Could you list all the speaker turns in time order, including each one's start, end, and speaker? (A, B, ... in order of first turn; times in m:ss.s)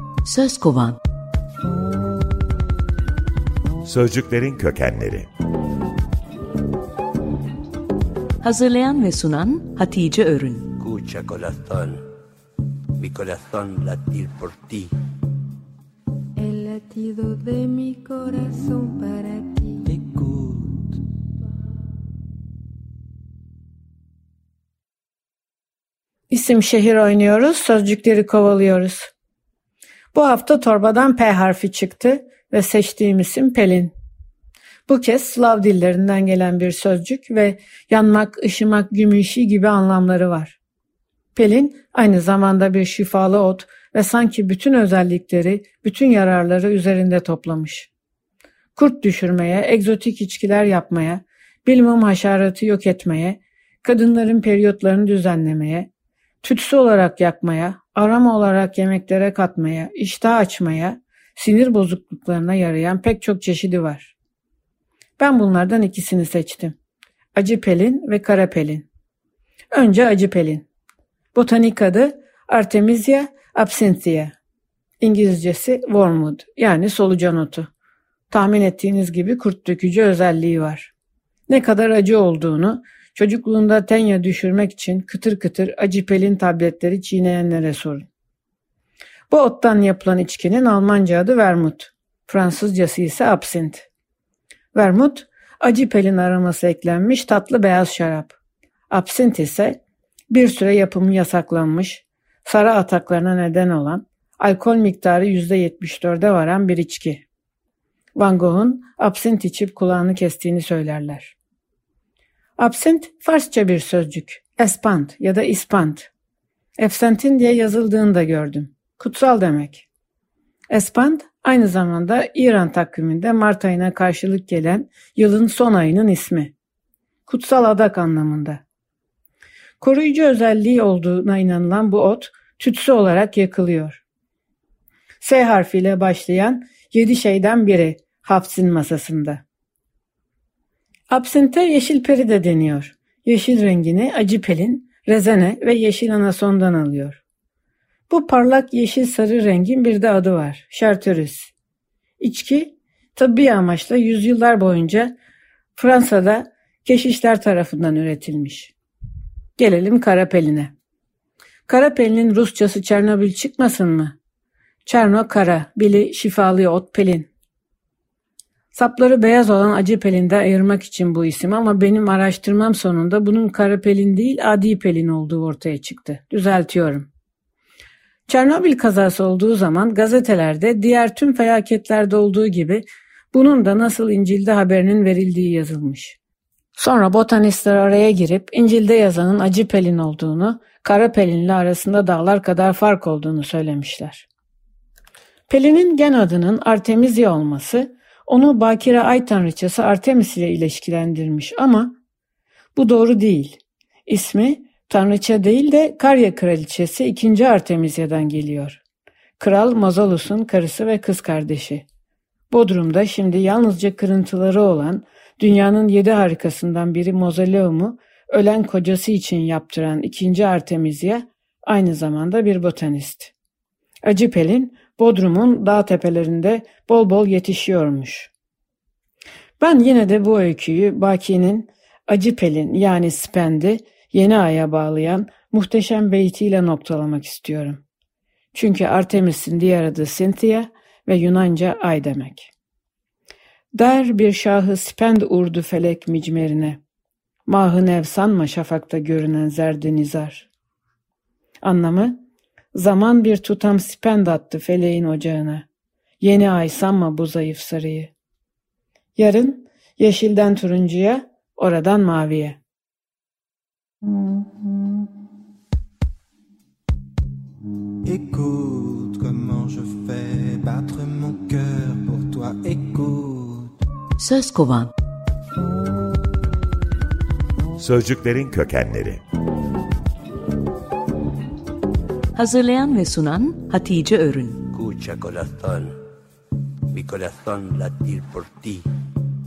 0:00.2-0:01.0 A
0:03.8-0:05.3 B
0:08.4-0:10.7 A
0:10.8-0:12.0 C
0:13.0-0:14.9 C
0:16.4-0:19.9 D
0:19.9-0:20.8 E
0:26.3-0:29.1 F
0:30.1-0:33.9 F
0:34.9-0:40.6 F
0:41.3-0:47.9 F
0:48.7-0:55.9 F
0:56.4-1:04.1 F
1:05.2-1:06.8 F
1:07.3-1:08.9 F
1:09.7-1:10.7 F
1:11.3-1:14.3 F
1:15.0-1:17.7 F
1:18.3-1:20.9 F
1:21.5-1:28.1 F
1:29.3-1:33.9 F
1:34.7-1:38.4 F
1:38.9-1:47.2 F
1:48.2-1:51.3 F
1:52.6-1:56.1 F
1:56.8-1:59.9 F
2:00.7-2:06.5 F
2:07.2-2:08.6 F
2:09.8-2:14.0 F
2:15.2-2:19.4 F
2:21.1-2:27.2 F
2:28.1-2:31.5 F
2:32.2-2:35.2 F
2:35.8-2:38.7 F
2:39.6-2:40.7 F
2:41.7-2:44.2 F
2:44.8-2:47.3 F
2:48.7-2:57.1 F
2:58.3-3:06.2 F
3:06.8-3:14.3 F
3:15.5-3:21.9 F
3:22.8-3:28.8 F
3:29.4-3:31.8 F
3:32.5-3:43.3 F
3:44.0-3:48.3 F
3:49.6-3:57.8 F
3:58.5-4:02.5 F
4:03.7-4:06.8 F
4:07.5-4:10.5 F
4:11.6-4:12.2 F
4:12.7-4:15.6 F
4:16.2-4:18.1 F
4:19.2-4:22.6 F
4:28.0-4:33.7 E
4:34.2-4:34.9 A
4:37.8-4:39.2 B
4:42.3-4:44.6 A
4:44.7-4:45.9 C
4:46.9-4:48.9 C